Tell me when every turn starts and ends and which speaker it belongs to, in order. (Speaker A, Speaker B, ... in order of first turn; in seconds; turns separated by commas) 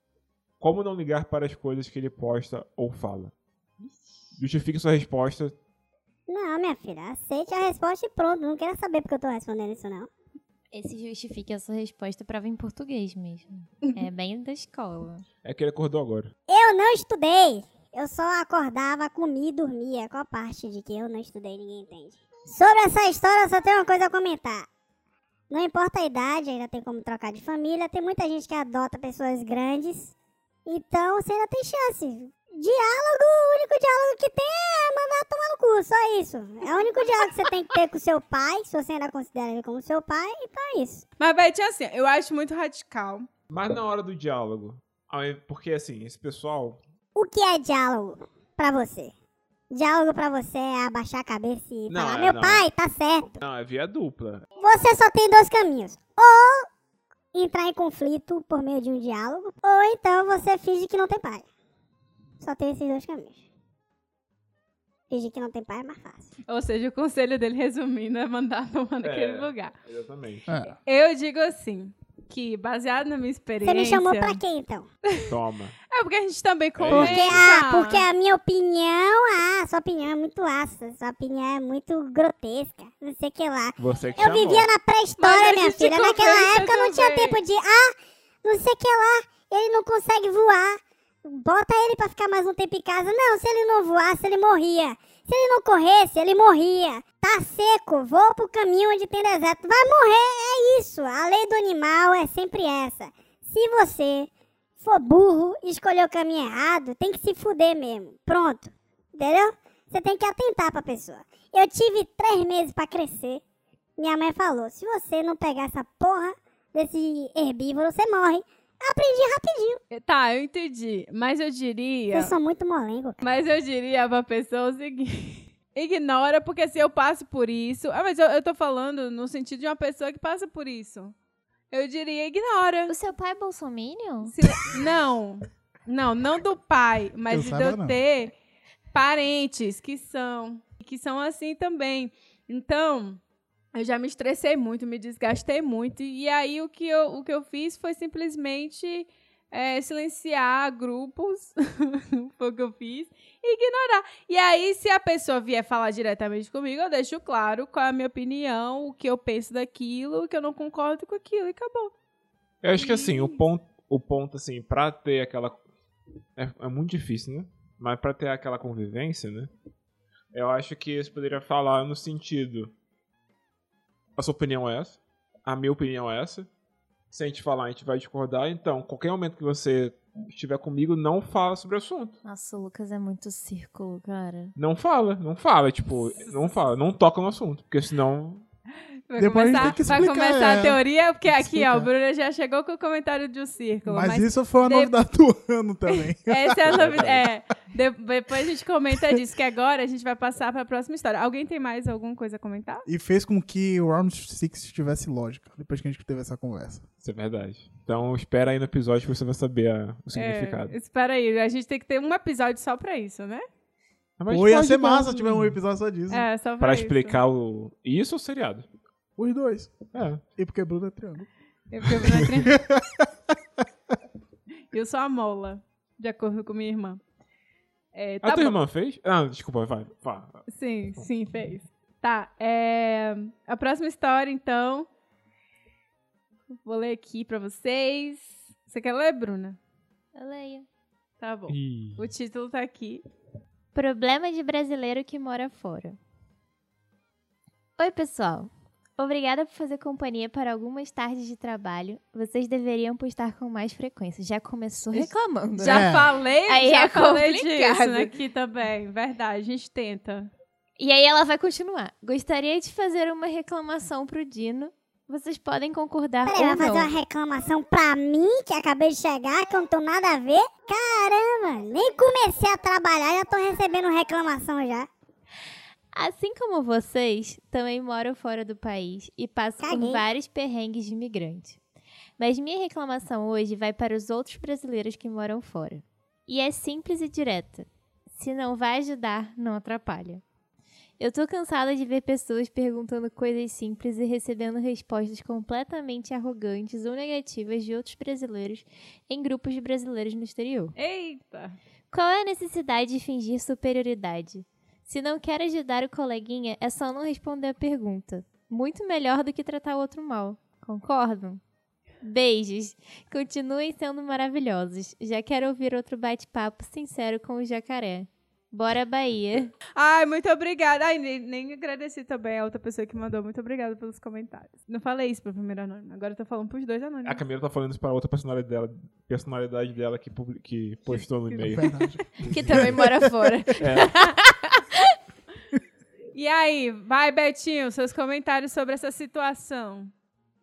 Speaker A: 0.6-3.3, Speaker A: 4.4-5.5, Speaker B: 6.3-10.1, Speaker C: 10.7-15.2, Speaker A: 15.4-16.3, Speaker B: 16.5-24.7, Speaker B: 25.5-30.1, Speaker B: 30.7-41.0, Speaker D: 41.2-43.3, Speaker A: 43.5-46.8, Speaker B: 47.1-49.1, Speaker B: 49.7-53.4, Speaker A: 51.9-52.7, Speaker A: 53.4-54.5, Speaker B: 54.6-56.7, Speaker B: 57.3-61.5, Speaker B: 62.4-63.5, Speaker B: 65.1-66.3, Speaker D: 66.5-69.7, Speaker A: 69.0-70.5, Speaker E: 70.5-70.8, Speaker D: 70.7-74.4, Speaker B: 73.6-74.9, Speaker A: 75.2-75.8, Speaker D: 75.9-78.1, Speaker A: 76.8-77.5, Speaker B: 76.9-113.4, Speaker A: 83.8-84.7, Speaker D: 85.2-87.4, Speaker B: 114.0-119.8, Speaker D: 119.9-122.3, Speaker B: 122.1-123.3, Speaker D: 123.2-131.2, Speaker D: 131.7-133.0, Speaker C: 132.9-134.3, Speaker D: 134.3-138.3, Speaker E: 137.3-138.0, Speaker D: 138.9-143.2, Speaker D: 143.7-161.9, Speaker A: 162.6-165.6, Speaker D: 162.8-163.4, Speaker A: 166.4-169.5, Speaker A: 170.3-172.7, Speaker A: 174.2-176.5, Speaker A: 177.1-182.2, Speaker C: 182.2-184.6, Speaker A: 184.6-188.4, Speaker D: 189.1-194.9, Speaker E: 189.2-191.9, Speaker A: 189.6-189.8, Speaker E: 193.9-196.8, Speaker D: 195.9-202.9, Speaker A: 196.7-197.3, Speaker E: 202.9-206.8, Speaker A: 207.0-210.8, Speaker D: 210.1-213.4, Speaker A: 214.2-215.6, Speaker E: 214.3-216.3, Speaker D: 216.1-217.2, Speaker A: 216.6-218.7, Speaker E: 219.2-221.3, Speaker A: 219.9-220.2, Speaker D: 221.7-222.6, Speaker E: 221.8-223.4, Speaker D: 224.7-227.0, Speaker D: 227.9-228.6, Speaker A: 228.2-230.4, Speaker D: 230.5-234.9, Speaker D: 236.5-239.6, Speaker C: 240.2-240.7, Speaker D: 241.2-243.0, Speaker A: 241.5-242.1, Speaker C: 243.7-246.0, Speaker C: 247.8-258.1, Speaker D: 254.9-260.3, Speaker E: 255.6-256.1, Speaker C: 260.8-266.9, Speaker B: 266.3-274.9, Speaker C: 275.9-281.6, Speaker B: 279.6-280.0, Speaker C: 282.2-290.2, Speaker C: 291.0-300.8, Speaker D: 300.8-301.6, Speaker C: 301.9-311.4, Speaker C: 312.0-319.5, Speaker D: 319.8-327.2, Speaker A: 327.1-331.7, Speaker D: 330.9-331.9, Speaker E: 331.5-333.4, Speaker C: 332.2-335.0, Speaker A: 333.6-333.9, Speaker D: 336.1-339.9